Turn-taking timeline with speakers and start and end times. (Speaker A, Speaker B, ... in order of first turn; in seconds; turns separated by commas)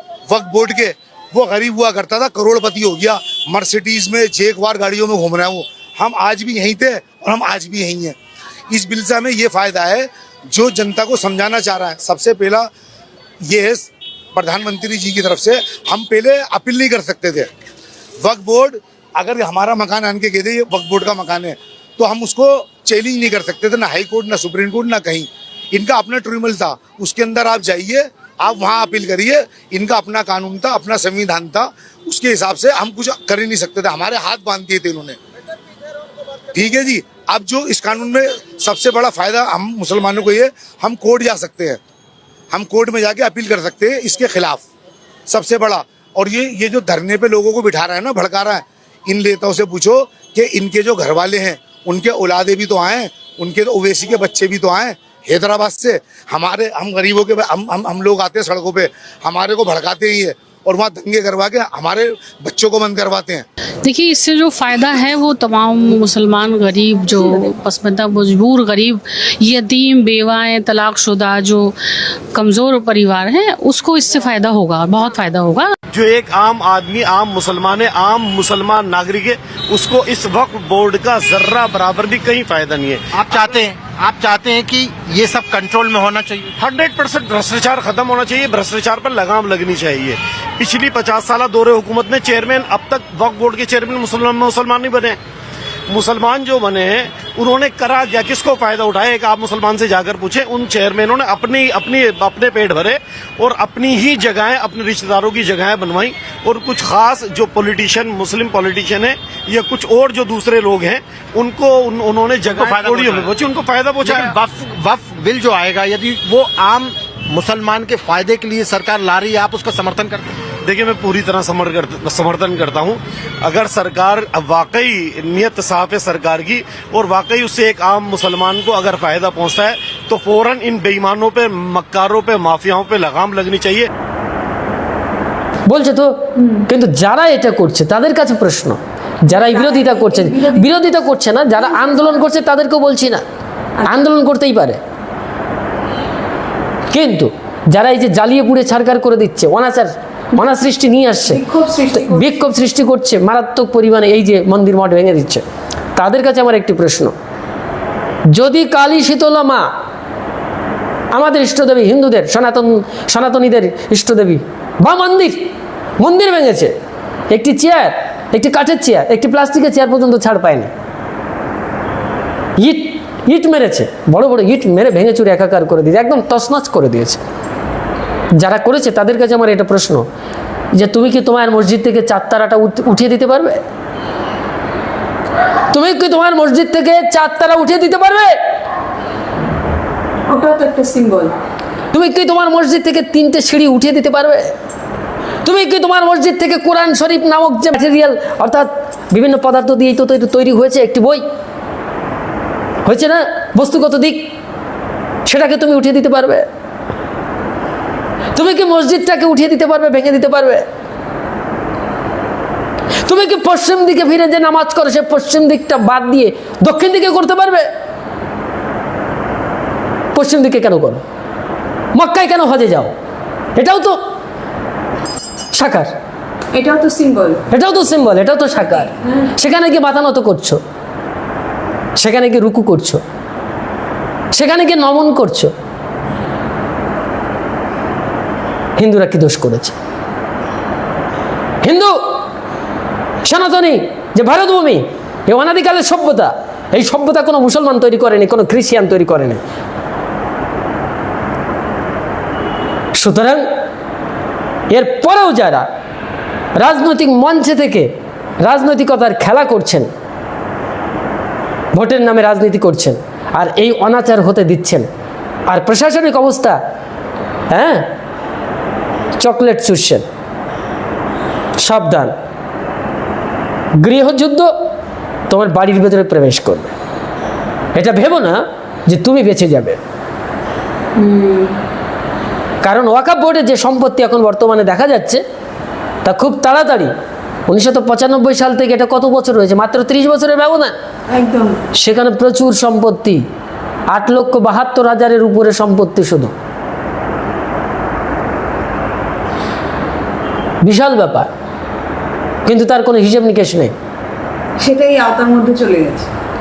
Speaker A: 0.3-8.2, Speaker A: 8.7-12.7, Speaker A: 13.4-17.5, Speaker A: 18.2-35.2, Speaker A: 36.5-41.8, Speaker A: 42.5-44.6, Speaker A: 45.3-63.5, Speaker B: 63.8-71.7, Speaker B: 72.3-75.7, Speaker C: 75.9-83.6, Speaker D: 83.1-86.5, Speaker C: 86.6-95.2, Speaker C: 95.9-114.4, Speaker D: 112.5-113.3, Speaker D: 114.0-120.2, Speaker C: 120.6-133.9, Speaker E: 135.7-143.2, Speaker F: 136.4-136.6, Speaker F: 139.3-140.8, Speaker F: 141.6-142.1, Speaker E: 143.8-144.8, Speaker E: 146.9-151.4, Speaker F: 151.2-152.3, Speaker E: 151.9-155.4, Speaker E: 156.0-157.1, Speaker E: 158.3-159.7, Speaker E: 161.1-165.4, Speaker E: 166.0-166.7, Speaker E: 167.3-170.7, Speaker E: 172.6-177.2, Speaker E: 178.4-180.1, Speaker E: 180.8-183.6, Speaker E: 185.7-188.4, Speaker F: 190.3-191.3, Speaker E: 191.9-194.5, Speaker E: 195.4-201.2, Speaker E: 202.8-204.3, Speaker E: 205.2-206.5, Speaker E: 208.3-210.7, Speaker E: 213.0-217.7, Speaker E: 220.1-221.0, Speaker E: 221.9-222.9, Speaker E: 223.6-224.0, Speaker E: 225.5-225.9, Speaker F: 226.5-227.4, Speaker E: 227.5-230.6, Speaker F: 229.0-229.3, Speaker E: 232.0-233.0, Speaker E: 234.3-235.5, Speaker E: 238.8-239.8, Speaker E: 241.6-242.2, Speaker E: 243.2-249.4, Speaker E: 252.9-253.5, Speaker E: 254.7-255.7, Speaker E: 256.6-257.9, Speaker E: 258.4-259.9, Speaker E: 261.7-264.9, Speaker E: 265.5-266.6, Speaker E: 267.5-267.9, Speaker E: 269.2-270.1, Speaker E: 271.6-272.1, Speaker E: 273.8-274.5, Speaker E: 275.3-276.7, Speaker E: 277.8-279.8, Speaker F: 280.9-281.6, Speaker E: 282.6-285.2, Speaker E: 286.0-286.9, Speaker E: 287.5-290.7, Speaker F: 291.1-291.6, Speaker E: 291.8-293.2, Speaker E: 293.9-296.3, Speaker E: 300.6-301.3, Speaker E: 302.5-303.7, Speaker F: 304.6-306.1